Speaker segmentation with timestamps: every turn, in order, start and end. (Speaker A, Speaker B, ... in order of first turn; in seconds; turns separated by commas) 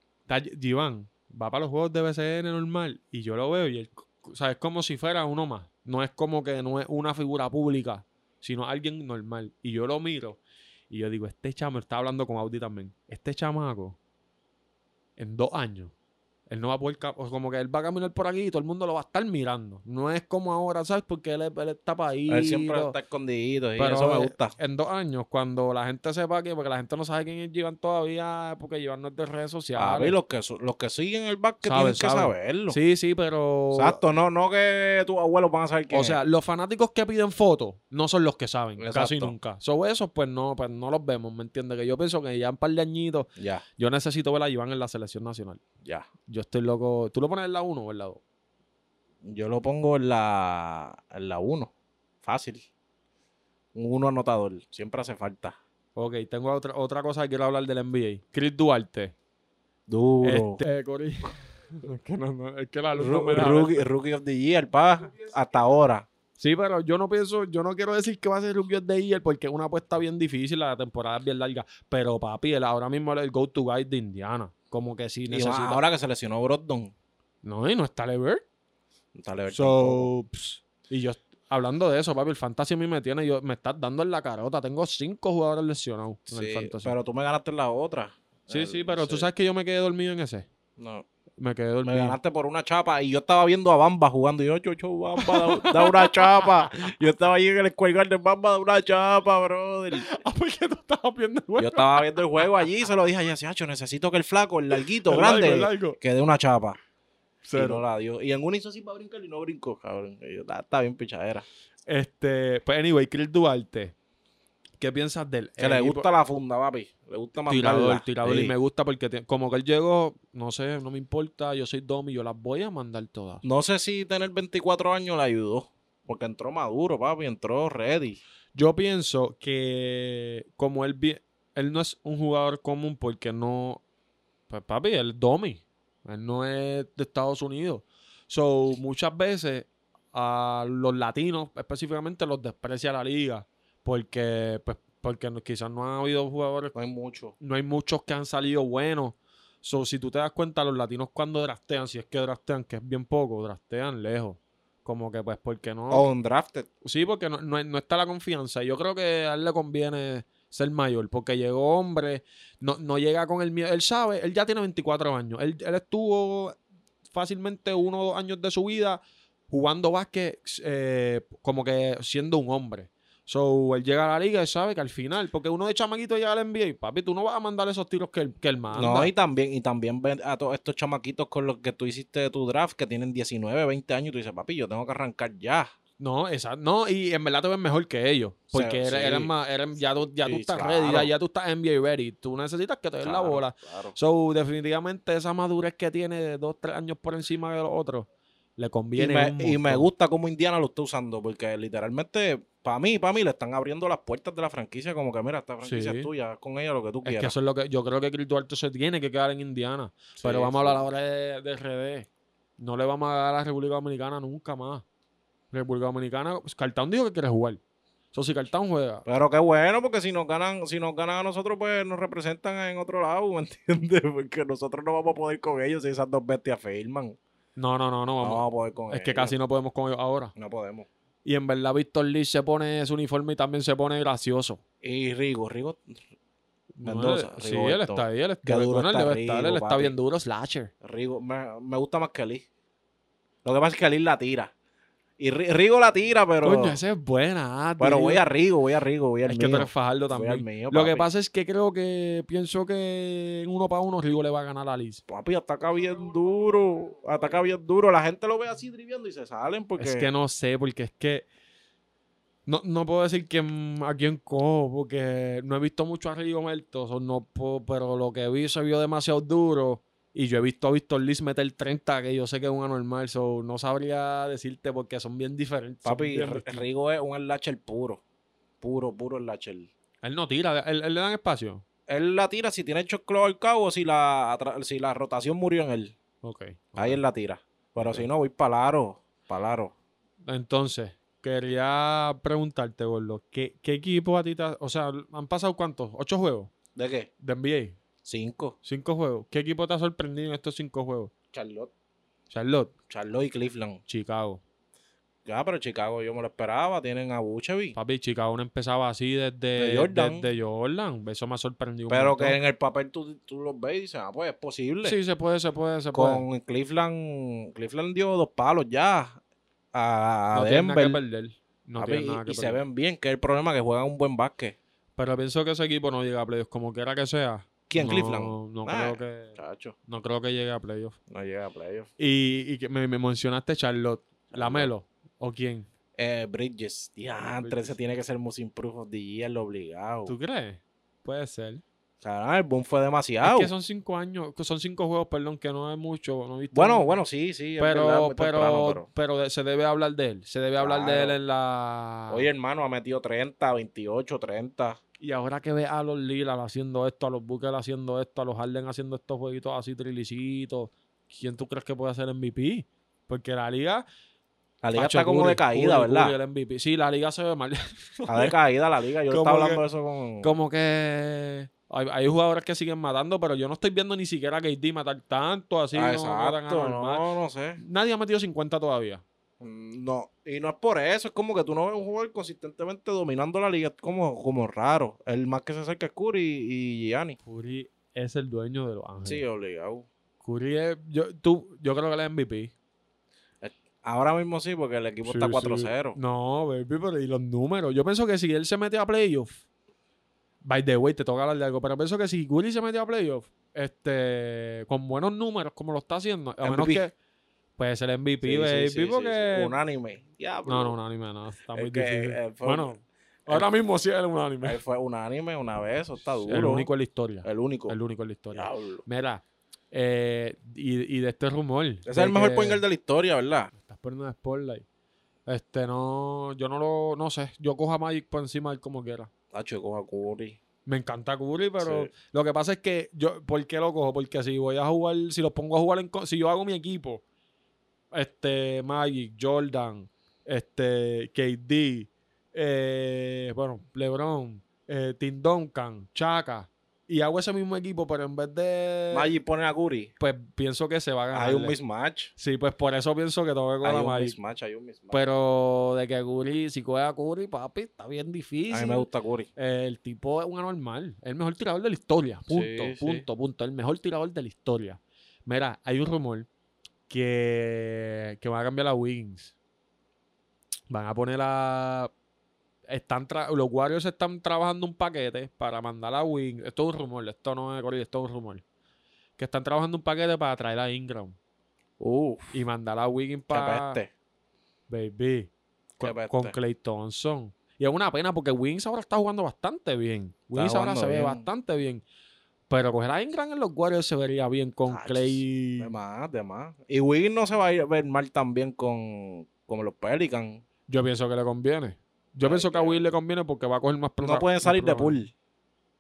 Speaker A: 0.3-10.4, Speaker A: 10.9-14.0, Speaker A: 15.2-15.9, Speaker A: 16.5-22.9, Speaker B: 22.3-24.6, Speaker A: 23.8-30.2, Speaker B: 29.8-32.8, Speaker A: 31.6-34.0, Speaker B: 33.7-36.2, Speaker A: 35.9-45.6, Speaker B: 38.8-39.3, Speaker B: 43.4-43.6, Speaker A: 46.3-48.2, Speaker B: 49.2-51.7, Speaker B: 52.2-52.6, Speaker B: 53.8-55.6, Speaker A: 56.0-59.1, Speaker B: 59.9-60.6, Speaker A: 60.2-63.9, Speaker B: 63.0-66.1, Speaker A: 66.4-75.8, Speaker B: 75.3-76.9, Speaker A: 77.4-78.4, Speaker B: 79.2-80.1, Speaker A: 79.5-86.9, Speaker B: 86.3-89.3, Speaker A: 88.5-90.5, Speaker B: 90.8-91.0, Speaker A: 91.4-92.2, Speaker B: 91.8-100.1, Speaker A: 95.2-96.5, Speaker A: 99.9-102.2, Speaker B: 101.6-106.8, Speaker A: 105.0-106.0, Speaker A: 107.4-107.8, Speaker B: 107.5-111.5, Speaker A: 111.9-114.0, Speaker A: 114.8-116.1, Speaker B: 115.6-118.5, Speaker A: 117.5-123.4, Speaker B: 123.4-128.2, Speaker A: 128.6-133.8, Speaker A: 134.5-146.7, Speaker B: 146.7-147.3, Speaker A: 147.4-156.1, Speaker B: 155.9-156.7, Speaker A: 156.8-166.6, Speaker A: 167.1-179.1, Speaker B: 178.7-185.7, Speaker A: 186.0-199.9, Speaker B: 188.5-189.3, Speaker B: 190.2-191.1, Speaker B: 193.0-194.0, Speaker B: 199.0-207.3, Speaker A: 205.6-206.1, Speaker A: 207.0-214.8, Speaker B: 210.2-210.8, Speaker A: 215.5-217.6, Speaker A: 218.1-219.0, Speaker B: 219.1-227.2, Speaker A: 227.6-230.3, Speaker B: 228.2-229.3, Speaker B: 230.4-230.9, Speaker A: 231.2-234.6, Speaker B: 234.8-236.0, Speaker A: 236.8-240.7, Speaker B: 236.8-239.9, Speaker B: 240.8-242.4, Speaker B: 243.4-244.5, Speaker B: 245.2-246.8, Speaker A: 246.4-248.2, Speaker B: 247.8-251.1, Speaker A: 249.3-255.0, Speaker B: 255.1-260.1, Speaker A: 259.8-261.3, Speaker A: 262.5-276.6, Speaker B: 275.9-278.0, Speaker B: 278.6-279.7, Speaker A: 280.0-281.6, Speaker B: 281.9-285.9, Speaker A: 286.2-287.0, Speaker B: 286.8-289.7, Speaker A: 287.8-288.1, Speaker A: 290.3-296.5, Speaker B: 296.8-297.1, Speaker A: 297.2-297.8, Speaker B: 298.0-298.6, Speaker A: 298.6-301.1, Speaker B: 301.3-301.7, Speaker A: 302.3-302.7, Speaker B: 302.9-303.8, Speaker A: 303.9-304.4, Speaker B: 305.3-307.8, Speaker A: 307.8-312.4, Speaker B: 309.6-310.3, Speaker B: 311.9-315.0, Speaker A: 314.8-316.2, Speaker B: 315.9-319.2, Speaker B: 319.7-321.0, Speaker A: 320.3-322.6, Speaker B: 321.8-324.6, Speaker A: 325.0-331.0, Speaker B: 327.7-329.8, Speaker B: 331.1-331.9, Speaker A: 332.0-335.7, Speaker B: 334.3-334.7, Speaker B: 336.0-340.1, Speaker A: 337.4-337.8, Speaker A: 340.1-341.6, Speaker B: 342.0-343.5, Speaker A: 343.2-347.0, Speaker B: 346.5-348.9, Speaker A: 347.6-352.3, Speaker B: 350.6-351.2, Speaker B: 352.1-354.8, Speaker A: 355.0-363.9, Speaker B: 364.6-366.1, Speaker A: 364.8-368.3, Speaker B: 368.1-370.3, Speaker A: 369.1-369.6, Speaker A: 370.2-377.1, Speaker B: 375.7-377.6, Speaker A: 377.6-379.0, Speaker B: 379.4-387.2, Speaker A: 387.2-389.2, Speaker B: 389.1-389.9, Speaker A: 390.2-392.5, Speaker B: 393.4-396.0, Speaker A: 395.1-399.4, Speaker A: 400.4-406.9, Speaker B: 406.4-406.9, Speaker A: 407.6-409.6, Speaker B: 408.2-410.8, Speaker A: 410.5-414.6, Speaker B: 411.5-412.7, Speaker B: 414.4-416.7, Speaker A: 416.2-422.6, Speaker B: 417.2-417.8, Speaker B: 418.3-418.9, Speaker B: 421.9-423.5, Speaker A: 423.5-424.6, Speaker A: 425.3-429.1, Speaker B: 429.3-430.4, Speaker A: 430.7-437.0, Speaker B: 431.6-431.9, Speaker A: 437.9-449.1, Speaker B: 448.9-449.9, Speaker A: 450.0-451.5, Speaker B: 451.1-452.1, Speaker A: 452.2-454.2, Speaker B: 453.6-455.0, Speaker A: 454.9-466.3, Speaker B: 458.5-459.3, Speaker B: 462.3-463.1, Speaker A: 466.9-469.3, Speaker A: 470.7-471.9, Speaker A: 472.7-478.4, Speaker A: 479.2-481.2, Speaker B: 481.8-482.3, Speaker A: 482.3-483.8, Speaker B: 483.3-483.9, Speaker A: 484.7-491.8, Speaker B: 485.8-486.4, Speaker B: 490.3-491.2, Speaker A: 492.5-495.7, Speaker B: 494.7-500.4, Speaker A: 500.7-505.0, Speaker B: 502.2-502.8, Speaker B: 504.0-505.1